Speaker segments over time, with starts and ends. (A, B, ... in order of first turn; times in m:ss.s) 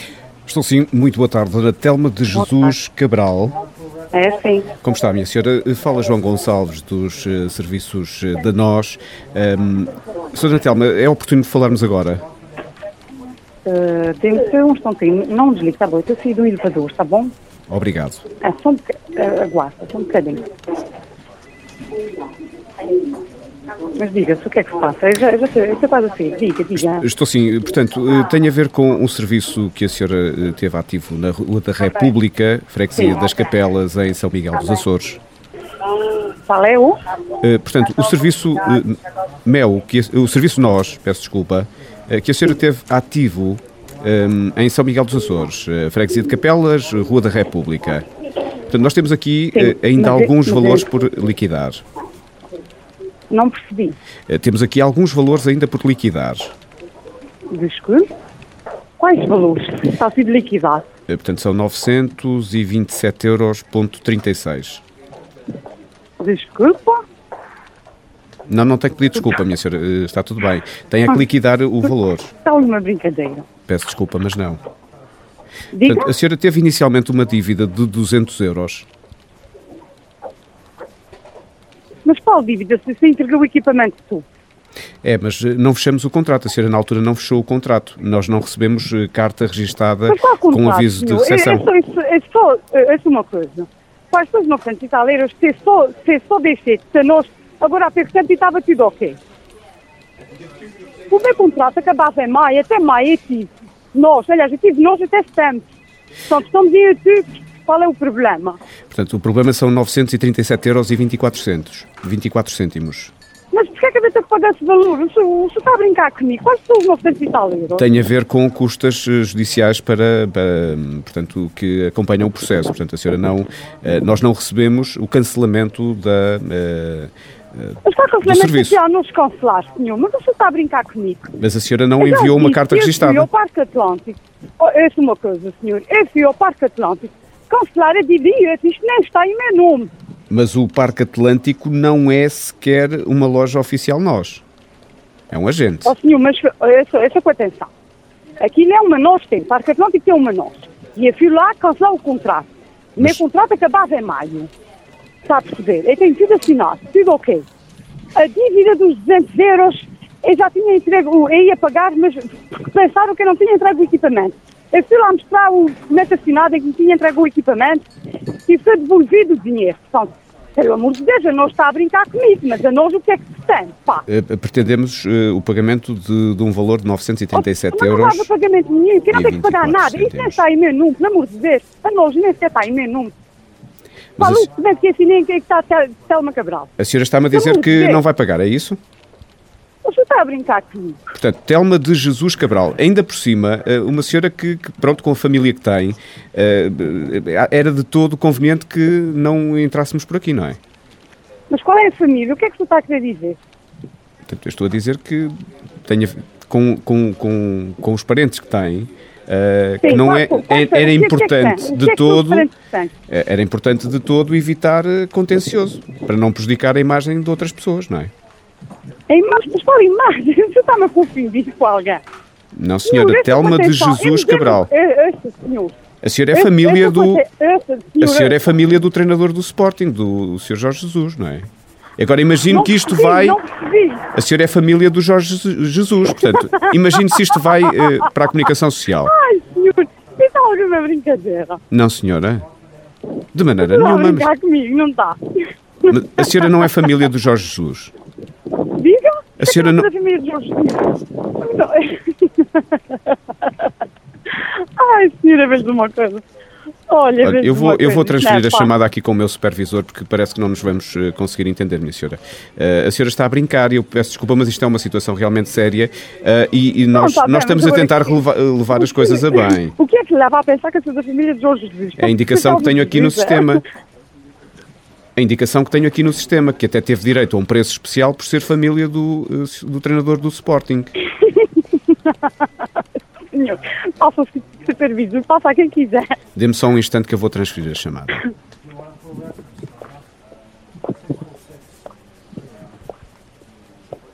0:00.5-0:03.6 A
0:02.4-0:02.7 B
0:04.1-0:04.7 B
0:04.8-0:12.2 A
0:13.6-0:17.3 B
0:17.7-0:18.2 A
0:18.4-0:20.4 B
0:24.0-0:27.1 B
0:26.8-0:35.2 A
0:33.0-0:33.2 B
0:36.5-0:37.0 B
0:37.4-0:48.0 A
0:48.7-0:51.8 A
0:49.5-0:50.9 B
0:53.3-0:54.0 B
0:54.3-0:56.6 A
0:57.5-0:58.1 B
0:59.0-1:00.8 B
1:01.1-1:04.8 A
1:06.2-1:07.0 B
1:08.5-1:12.3 A
1:12.4-1:13.4 B
1:13.7-1:14.6 A
1:15.7-1:16.1 B
1:15.8-1:18.9 A
1:22.0-1:24.2 B
1:25.0-1:31.7 A
1:30.1-1:39.2 B
1:41.1-1:45.7 B
1:46.3-1:48.6 B
1:48.9-1:53.1 A
1:53.5-1:57.8 B
1:57.8-2:08.8 A
2:07.8-2:11.3 B
2:11.4-2:13.3 A
2:12.0-2:19.9 B
2:20.3-2:24.4 A
2:25.3-2:25.9 A
2:25.8-2:27.7 B
2:28.4-2:34.5 B
2:35.3-2:37.4 B
2:38.2-2:47.8 B
2:48.4-2:54.1 B
2:54.1-2:58.3 A
2:57.3-3:03.1 B
2:59.1-3:00.4 A
3:04.2-3:04.5 A
3:04.2-3:06.7 B
3:06.8-3:08.8 A
3:07.3-3:08.0 B
3:09.8-3:11.0 B
3:11.1-3:20.6 A
3:21.5-3:23.4 B
3:24.3-3:25.3 A
3:25.8-3:32.5 A
3:29.8-3:32.9 B
3:33.1-3:38.1 A
3:39.1-3:42.0 B
3:42.5-3:44.7 A
3:42.8-3:45.8 B
3:46.0-3:47.2 A
3:46.3-3:48.5 B
3:48.0-3:51.4 A
3:52.0-3:53.4 A
3:52.5-3:54.1 B
3:54.1-3:59.1 A
3:56.6-3:58.0 B
3:59.0-4:01.6 B
4:01.7-4:02.4 A
4:03.3-4:04.3 A
4:03.6-4:06.9 B
4:05.9-4:07.9 A
4:08.7-4:13.7 B
4:09.4-4:09.9 A
4:14.3-4:16.2 B
4:16.9-4:18.7 B
4:17.2-4:29.8 A
4:26.9-4:28.2 B
4:28.8-4:33.6 B
4:32.0-4:33.6 A
4:35.2-4:40.9 A
4:41.2-4:42.4 B
4:43.3-4:46.1 B
4:46.4-4:48.2 A